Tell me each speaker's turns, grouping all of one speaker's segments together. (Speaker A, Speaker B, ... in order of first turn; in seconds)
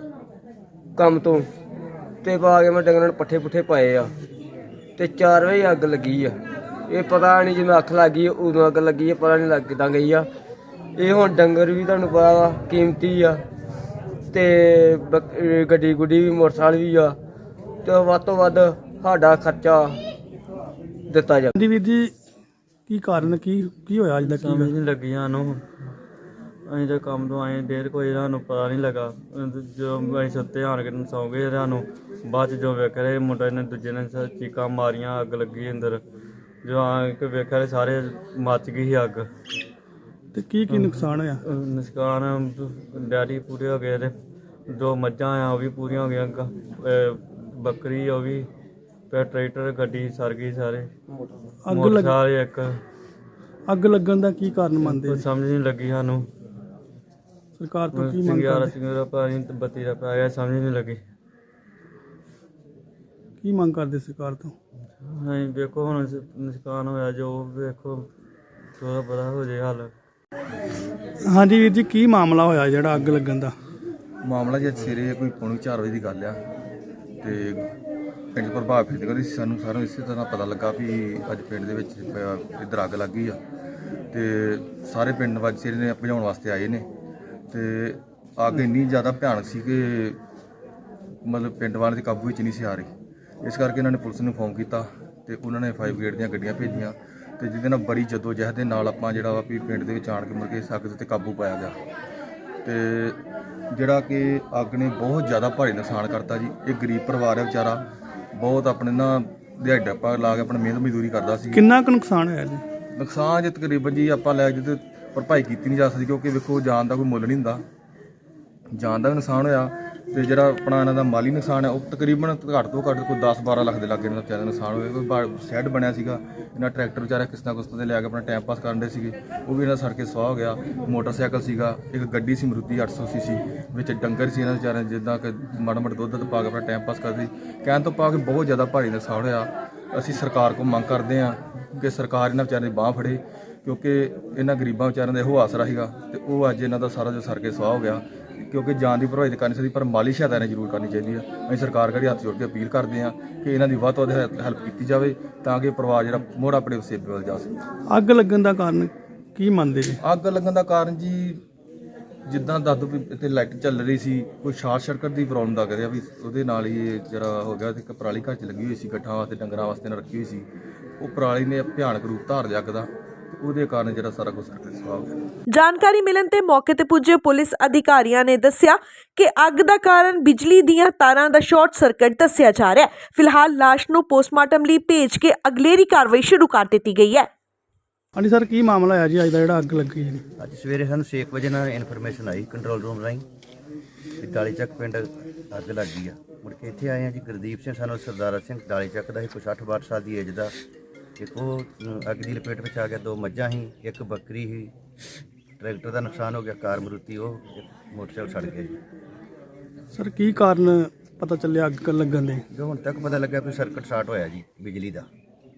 Speaker A: 1.0-1.4, 2.2-4.1, 5.0-6.4, 6.9-10.2, 11.0-13.4, 14.3-17.2, 17.9-20.0, 21.1-21.5
Speaker B: 21.6-22.1, 22.9-24.7, 40.3-41.4, 51.6-52.2, 53.7-55.2, 57.6-58.7, 63.4-64.5, 71.2-73.5, 111.5-112.6, 157.9-160.0, 188.1-190.2, 209.9-212.4
Speaker C: 24.2-25.6, 26.7-36.0, 36.6-39.3, 40.7-44.1, 44.7-48.5, 49.1-50.9, 51.7-52.8, 54.8-56.2, 57.9-61.0, 65.0-68.1, 68.8-69.9
Speaker D: 74.2-76.4, 77.2-77.7, 78.3-83.4, 84.1-86.9, 87.5-90.2, 91.2-92.9, 93.4-101.8, 102.7-103.2, 103.7-107.8, 108.3-111.6, 113.0-117.6, 118.7-157.5, 160.0-161.4, 162.3-170.5, 171.0-175.2
Speaker E: 175.5-187.3
Speaker F: 190.4-193.2, 194.2-200.5, 201.2-204.7, 205.6-208.8, 212.5-215.1